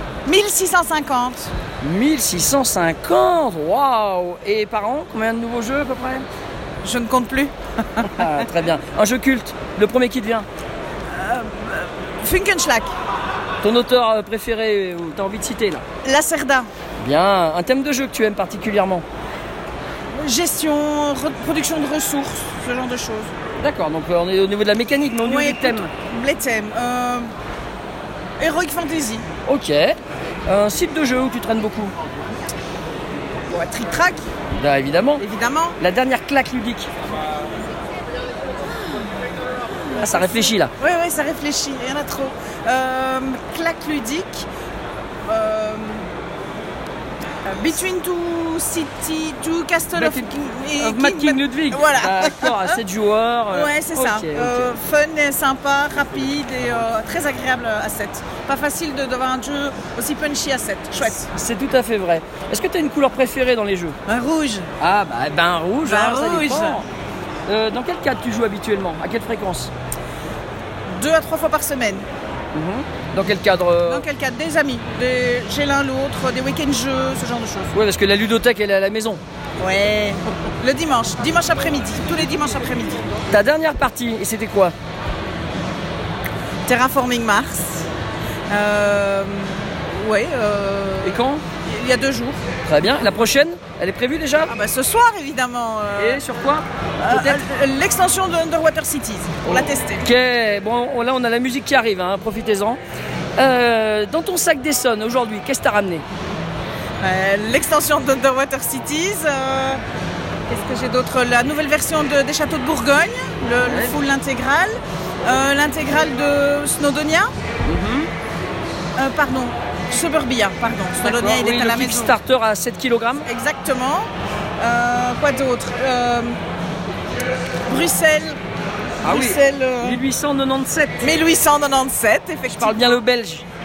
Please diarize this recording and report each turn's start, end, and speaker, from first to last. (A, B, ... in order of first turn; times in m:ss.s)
0:00.2-0:01.5 A
0:01.8-0:06.2 B
0:06.8-0:08.1 A
0:08.0-0:10.4 B
0:11.1-0:12.9 A
0:13.6-0:15.8 B
0:16.0-0:16.7 A
0:17.0-0:19.0 B
0:20.2-0:23.3 A
0:23.6-0:25.9 B
0:25.2-0:27.3 A
0:28.4-0:29.2 A
0:29.4-0:31.9 B
0:33.5-0:34.2 A
0:34.5-0:35.2 B
0:35.2-0:35.8 A
0:35.8-0:36.9 B
0:40.0-0:40.7 B
0:40.8-0:44.5 A
0:45.2-0:46.0 A
0:47.4-0:52.7 A
0:50.0-0:54.7 B
0:53.5-1:01.3 A
1:01.2-1:04.0 B
1:04.0-1:04.7 A
1:04.8-1:06.8 B
1:05.8-1:06.8 A
1:07.5-1:09.7 B
1:10.9-1:12.0 A
1:12.5-1:14.0 B
1:13.8-1:17.7 A
1:17.7-1:19.2 B
1:19.6-1:23.1 A
1:23.3-1:24.7 B
1:26.6-1:27.9 A
1:28.5-1:32.4 A
1:31.0-1:31.4 B
1:32.6-1:34.5 B
1:34.5-1:36.2 A
1:35.9-1:37.4 B
1:37.0-1:40.0 A
1:39.4-1:42.8 B
1:43.4-1:46.0 B
1:47.0-1:49.8 A
1:50.5-1:57.3 A
1:53.6-1:54.0 B
1:57.6-1:58.1 B
1:59.0-2:02.1 A
2:01.0-2:03.3 B
2:03.2-2:04.1 A
2:04.6-2:06.4 A
2:07.7-2:08.4 A
2:09.0-2:10.0 A
2:09.0-2:11.1 B
2:11.0-2:12.8 A
2:12.5-2:13.4 B